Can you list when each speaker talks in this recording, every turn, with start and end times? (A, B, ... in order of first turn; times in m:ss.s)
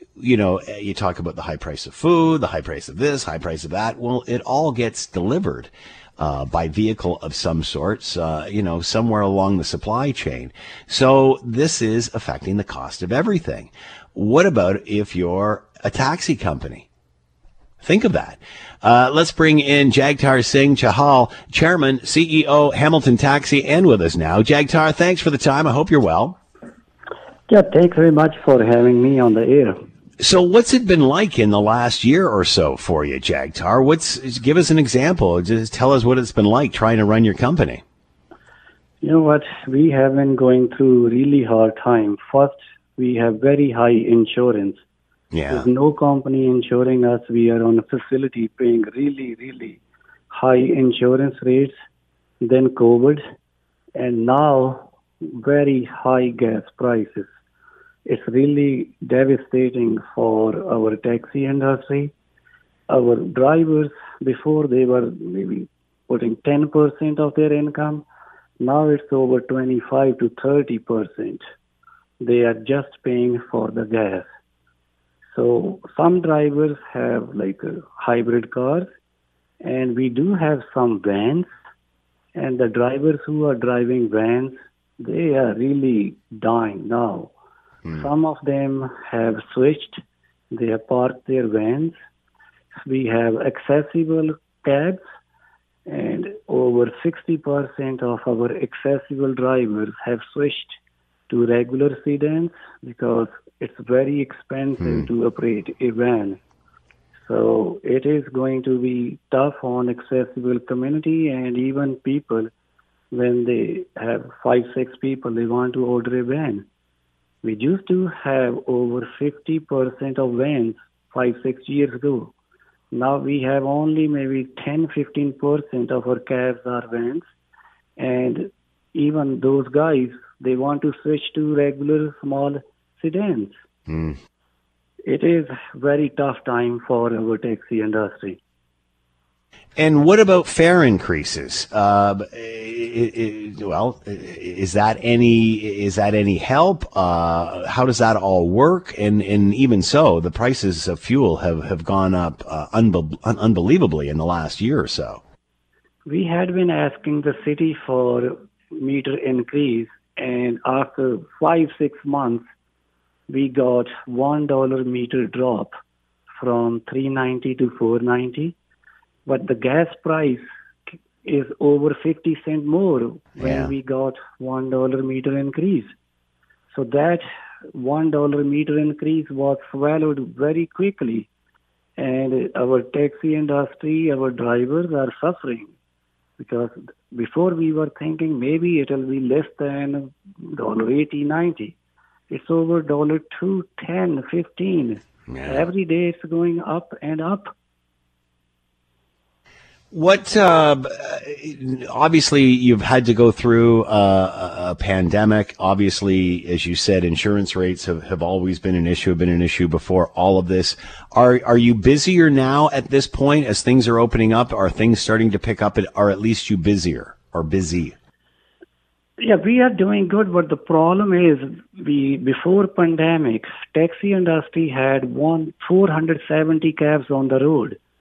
0:00.2-0:16.9 A
0:17.8-0:26.4 A
0:27.5-0:29.8 B
0:30.2-0:37.8 A
0:39.0-0:44.8 B
0:45.3-0:45.7 A
0:45.5-0:49.8 B
0:50.3-0:51.7 B
0:52.4-0:53.2 B
0:54.0-0:57.3 B
0:58.1-1:02.1 B
1:02.9-1:08.0 B
1:08.6-1:11.4 B
1:12.2-1:14.3 B
1:15.3-1:18.9 B
1:19.6-1:21.5 B
1:22.4-1:27.3 B
1:28.0-1:32.0 B
1:32.8-1:35.0 B
1:35.9-1:40.8 B
1:41.3-1:46.4 B
1:44.8-1:45.0 A
1:47.2-1:52.5 B
1:53.1-1:56.6 B
1:57.4-2:02.3 B
2:02.9-2:07.3 B
2:08.0-2:13.6 B
2:13.9-2:14.2 A
2:15.0-2:18.4 B
2:19.8-2:35.2 A
2:36.0-2:42.4 B
2:43.3-2:45.7 B
2:46.4-2:48.6 B
2:49.2-2:50.4 B
2:51.2-2:55.9 B
2:53.4-2:53.7 A
2:56.7-3:01.3 B
3:02.0-3:05.7 B
3:06.4-3:11.8 B
3:12.3-3:17.5 B
3:15.3-3:15.6 A
3:19.9-3:38.0 A
3:39.2-3:47.8 B